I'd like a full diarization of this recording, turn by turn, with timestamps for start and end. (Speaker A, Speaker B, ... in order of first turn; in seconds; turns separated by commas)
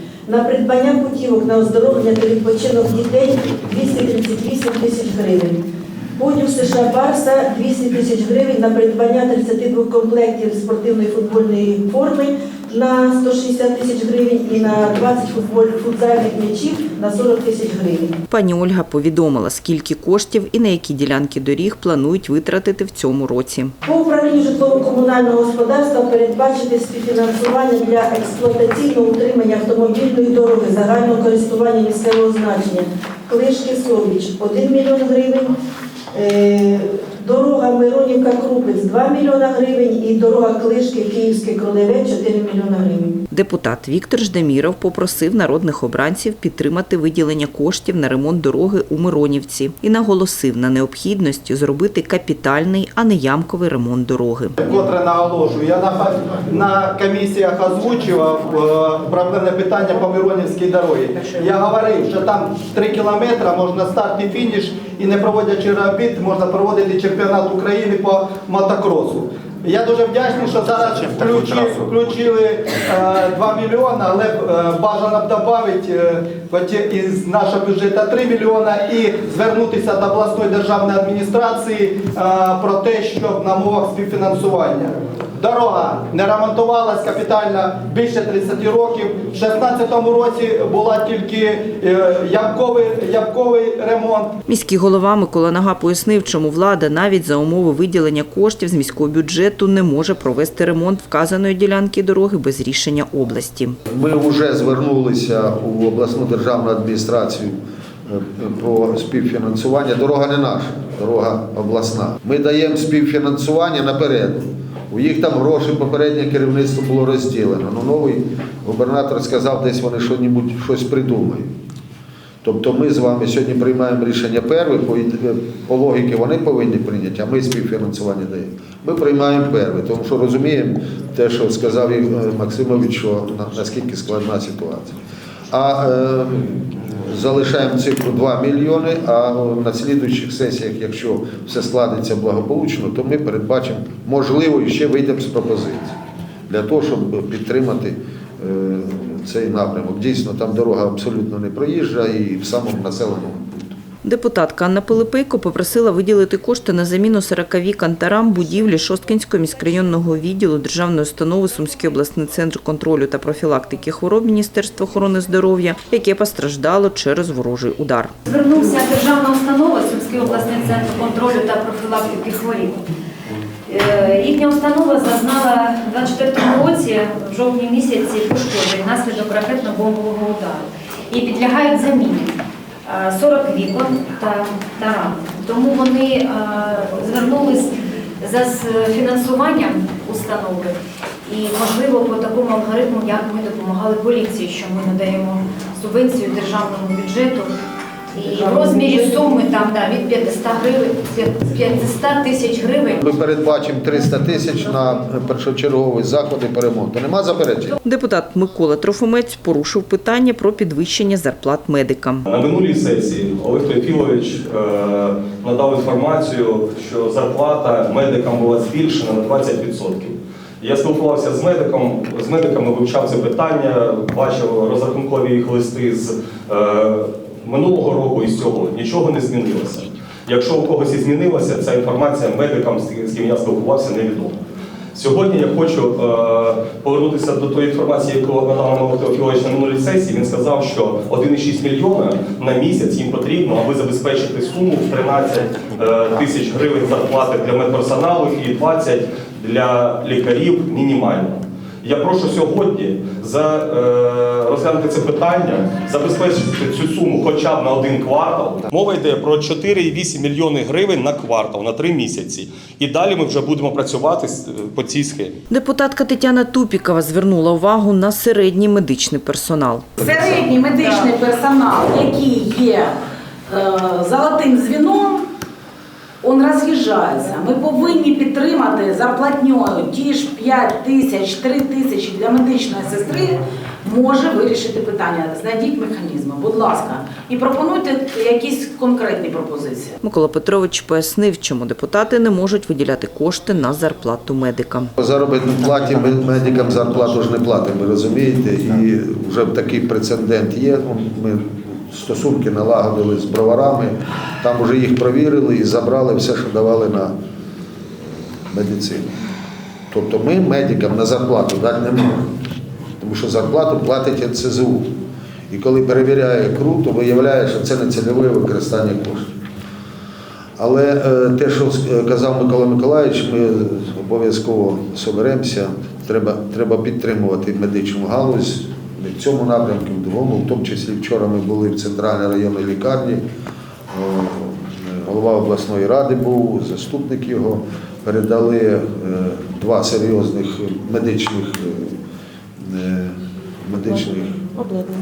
Speaker A: 0.2-5.6, Speaker A: 6.2-18.1, Speaker B: 18.3-23.7, Speaker A: 23.8-35.5, Speaker A: 36.1-43.2, Speaker B: 43.3-54.5, Speaker C: 54.6-94.3, Speaker B: 94.5-103.8, Speaker D: 103.9-121.5, Speaker D: 122.4-134.9, Speaker D: 135.5-145.9, Speaker D: 146.5-153.7, Speaker B: 154.0-168.1, Speaker E: 168.3-172.8, Speaker E: 173.7-190.8, Speaker E: 191.3-197.5, Speaker E: 198.1-203.0, Speaker D: 203.0-207.8, Speaker B: 207.8-212.3, Speaker F: 212.3-234.4, Speaker F: 234.9-265.4, Speaker B: 265.5-269.9, Speaker G: 270.0-275.3, Speaker G: 276.2-289.9, Speaker B: 290.0-294.9, Speaker D: 295.0-307.1, Speaker D: 308.5-309.1, Speaker D: 309.9-312.3, Speaker D: 313.0-314.9, Speaker D: 315.5-319.3, Speaker D: 320.6-333.2, Speaker D: 333.9-342.0, Speaker D: 342.6-344.7